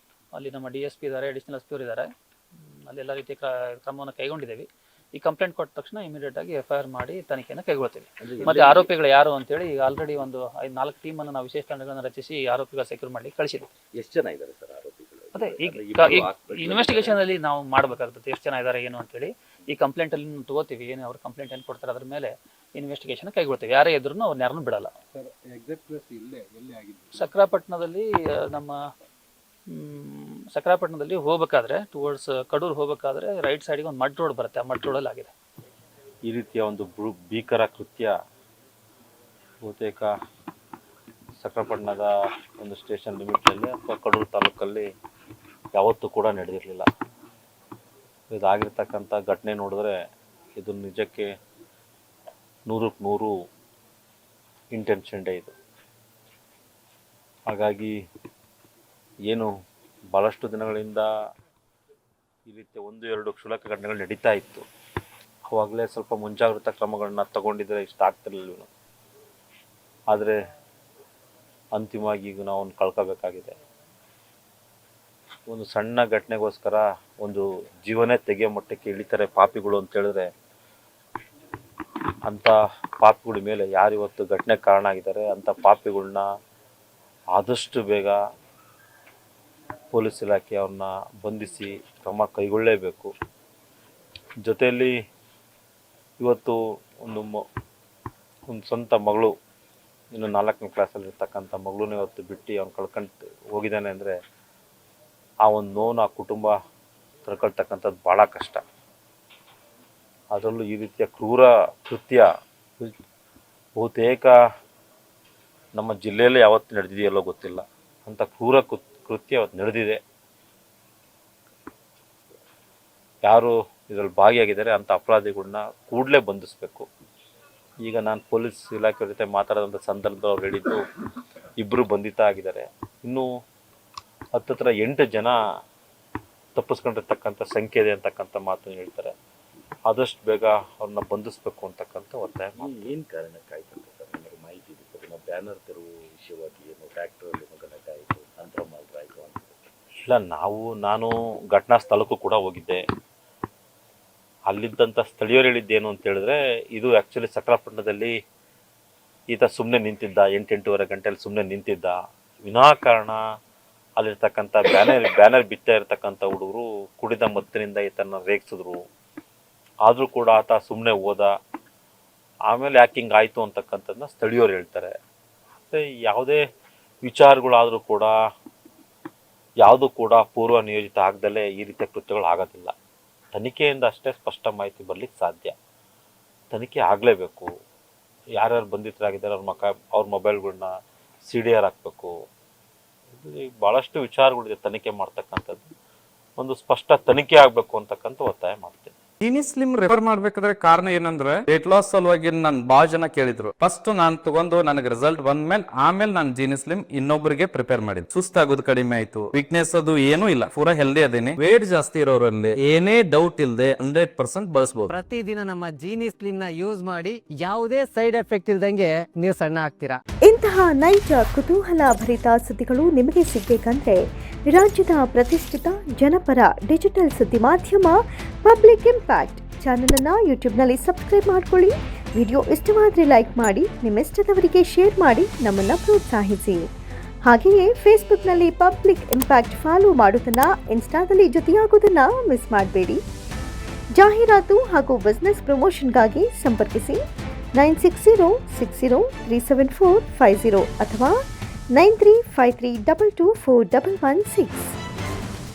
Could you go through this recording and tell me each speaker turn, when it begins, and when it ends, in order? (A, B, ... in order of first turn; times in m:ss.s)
0:00.3-0:13.7 A
0:08.2-0:08.9 B
0:13.9-0:17.2 B
0:15.3-0:24.9 A
0:25.1-0:27.2 C
0:27.1-0:28.8 A
0:29.7-0:35.3 A
0:36.3-0:38.1 D
0:39.6-0:40.0 D
0:41.4-0:42.1 D
0:42.6-0:44.8 D
0:45.7-0:46.9 D
0:48.3-0:49.9 D
0:50.6-0:51.3 D
0:52.7-0:53.3 D
0:54.7-0:55.5 D
0:57.5-0:57.9 D
1:00.1-1:01.1 D
1:02.4-1:04.6 D
1:05.5-1:08.7 D
1:11.7-1:13.5 D
1:15.5-1:20.3 D
1:22.2-1:26.2 D
1:27.3-1:28.2 D
1:29.9-1:33.1 D
1:34.4-1:34.9 D
1:36.2-1:37.4 D
1:38.5-1:39.3 D
1:40.1-1:44.1 D
1:45.4-1:46.5 D
1:47.2-1:48.6 D
1:50.3-1:52.2 D
1:53.8-1:54.3 D
1:55.7-2:00.0 D
2:03.2-2:06.9 D
2:07.8-2:10.8 D
2:11.6-2:13.3 D
2:14.4-2:15.4 D
2:16.5-2:19.1 D
2:19.9-2:22.9 D
2:22.5-2:29.7 B
2:30.1-2:32.8 D
2:34.5-2:38.1 D
2:39.3-2:41.9 D
2:42.4-2:43.2 D
2:44.0-2:48.8 D
2:49.8-2:51.3 D
2:52.5-2:54.9 D
2:55.7-2:56.4 D
2:57.0-2:58.1 D
2:59.6-3:02.7 D
3:03.3-3:05.5 D
3:06.5-3:07.5 D
3:08.4-3:10.7 D
3:11.2-3:12.1 D
3:13.1-3:15.7 D
3:16.4-3:18.9 D
3:19.2-3:34.9 E
3:34.9-3:40.0 F
3:40.2-3:56.6 G
3:57.2-4:03.0 G
4:04.0-4:07.0 G
4:07.6-4:11.2 G
4:11.7-4:14.7 G